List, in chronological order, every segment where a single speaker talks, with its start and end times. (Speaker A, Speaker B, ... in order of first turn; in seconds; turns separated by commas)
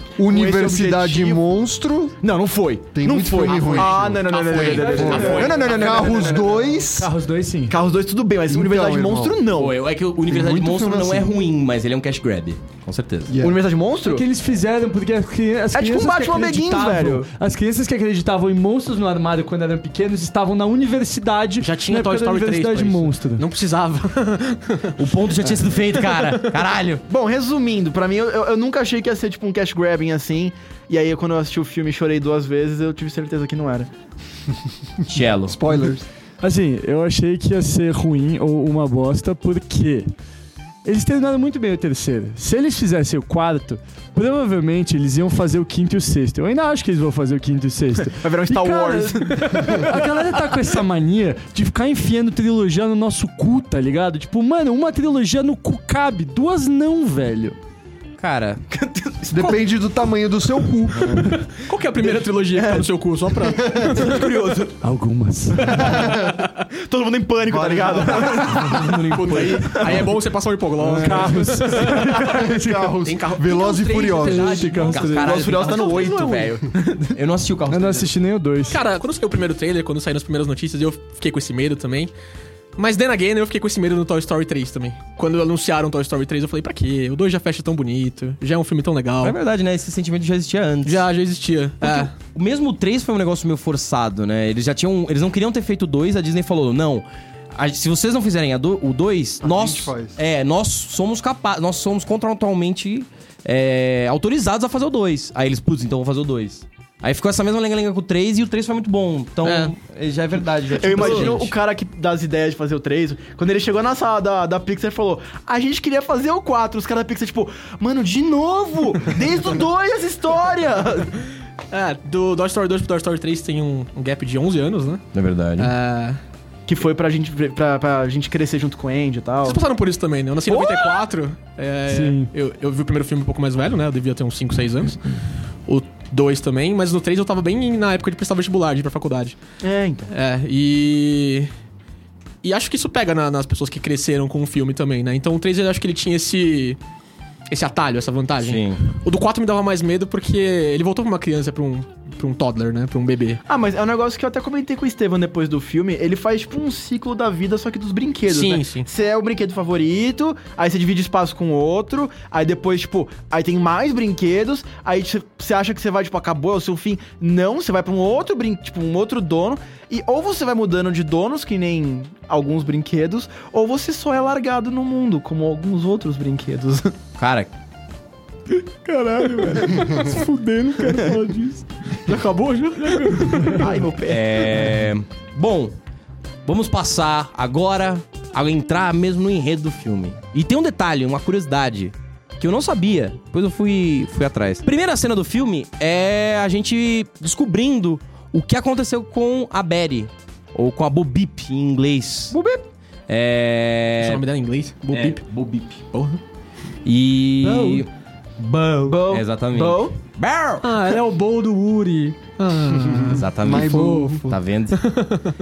Speaker A: 0.2-2.2, Speaker B: 0.2-1.4, Speaker B: 2.2-6.7, Speaker A: 2.9-7.1, Speaker C: 3.5-6.3, Speaker D: 4.2-5.6, Speaker E: 6.9-7.8, Speaker B: 7.7-9.8, Speaker A: 8.5-9.4, Speaker D: 9.5-13.3, Speaker A: 10.3-11.4, Speaker A: 13.3-13.6, Speaker B: 13.4-14.2, Speaker E: 14.0-23.4, Speaker B: 15.7-17.3, Speaker C: 21.6-26.5, Speaker D: 25.0-27.0, Speaker B: 27.1-33.9, Speaker D: 35.0-35.6, Speaker A: 35.5-36.0, Speaker E: 36.4-40.1, Speaker E: 40.8-57.5, Speaker B: 48.0-50.0, Speaker D: 58.2-58.6, Speaker B: 58.7-59.6, Speaker A: 59.3-61.3, Speaker C: 61.5-64.3, Speaker B: 62.0-64.8, Speaker E: 64.8-65.9, Speaker B: 65.7-70.1, Speaker A: 65.8-66.4, Speaker A: 67.4-69.2, Speaker D: 68.7-69.9, Speaker C: 69.1-72.3, Speaker E: 70.8-72.9, Speaker A: 72.0-74.6, Speaker C: 73.0-75.0, Speaker E: 74.2-75.4, Speaker B: 74.7-77.2, Speaker D: 74.8-76.6, Speaker D: 77.1-78.1, Speaker E: 77.7-78.8, Speaker C: 78.7-82.1, Speaker C: 82.8-89.4, Speaker D: 89.2-91.0, Speaker C: 90.8-92.1, Speaker D: 91.8-111.5, Speaker A: 99.4-100.2, Speaker C: 109.4-109.7, Speaker B: 110.8-121.2, Speaker C: 111.0-111.3, Speaker C: 121.7-125.0, Speaker D: 125.1-125.7, Speaker C: 125.6-126.2, Speaker B: 126.7-129.6, Speaker C: 129.4-135.1, Speaker B: 130.5-131.0, Speaker E: 131.9-132.3, Speaker C: 135.7-139.4, Speaker B: 139.6-140.1, Speaker C: 140.1-141.5, Speaker C: 142.4-146.8, Speaker C: 147.5-153.4, Speaker D: 148.4-148.8, Speaker B: 153.5-177.0, Speaker C: 158.3-158.9, Speaker D: 177.2-177.5, Speaker B: 178.9-180.2, Speaker E: 179.7-181.6, Speaker B: 180.8-181.2, Speaker C: 182.0-183.7, Speaker E: 183.2-183.7, Speaker B: 183.5-184.6, Speaker D: 184.0-185.7, Speaker D: 186.4-202.3, Speaker B: 202.3-202.6, Speaker D: 203.1-204.2, Speaker C: 204.0-205.2, Speaker D: 204.9-205.8, Speaker C: 205.9-206.2, Speaker D: 206.8-207.9, Speaker E: 207.4-207.8, Speaker D: 208.4-210.9, Speaker B: 208.9-210.0, Speaker C: 210.6-214.2, Speaker A: 212.9-214.4, Speaker D: 213.1-214.8, Speaker C: 214.8-215.3